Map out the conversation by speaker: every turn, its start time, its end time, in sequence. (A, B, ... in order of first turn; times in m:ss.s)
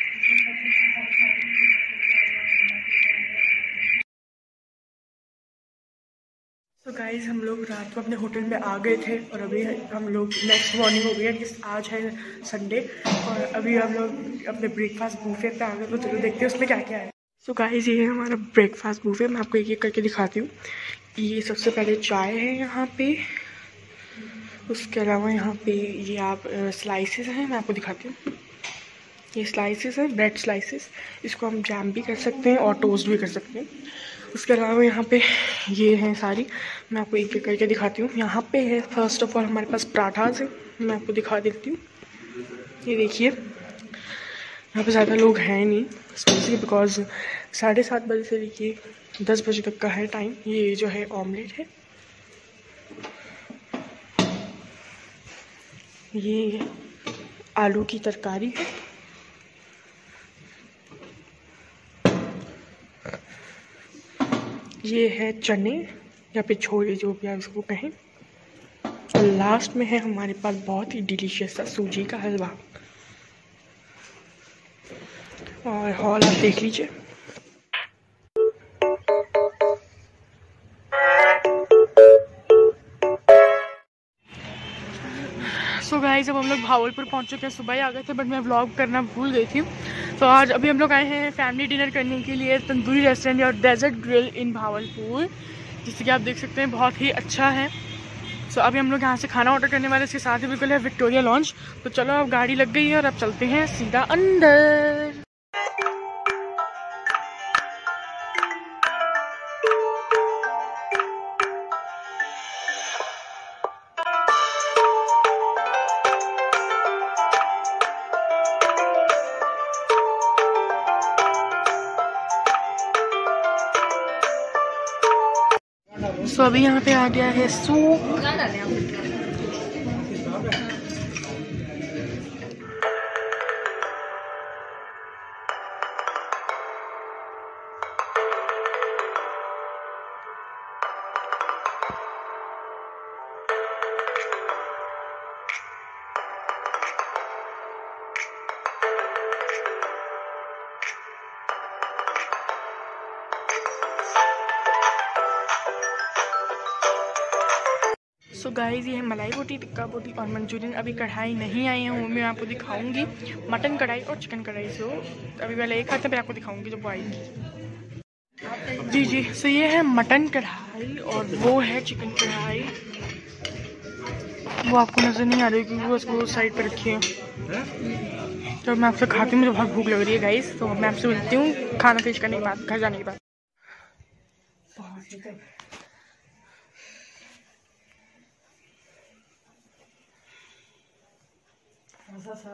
0:00.3-0:03.2 A
0:06.8-0:23.5 A
0:24.6-0:28.3 A
0:29.3-0:41.9 A
0:42.6-0:51.7 A
0:56.1-0:56.8 A
0:57.5-0:58.8 A
1:04.8-1:08.0 A
1:09.1-1:12.6 A
1:15.6-1:17.0 A
1:25.1-1:37.8 A
1:38.5-1:45.2 A
2:06.1-2:08.7 A
2:38.3-2:47.3 A
2:48.6-2:52.8 A
2:54.6-2:57.1 A
2:58.6-3:03.2 A
3:04.8-3:05.4 A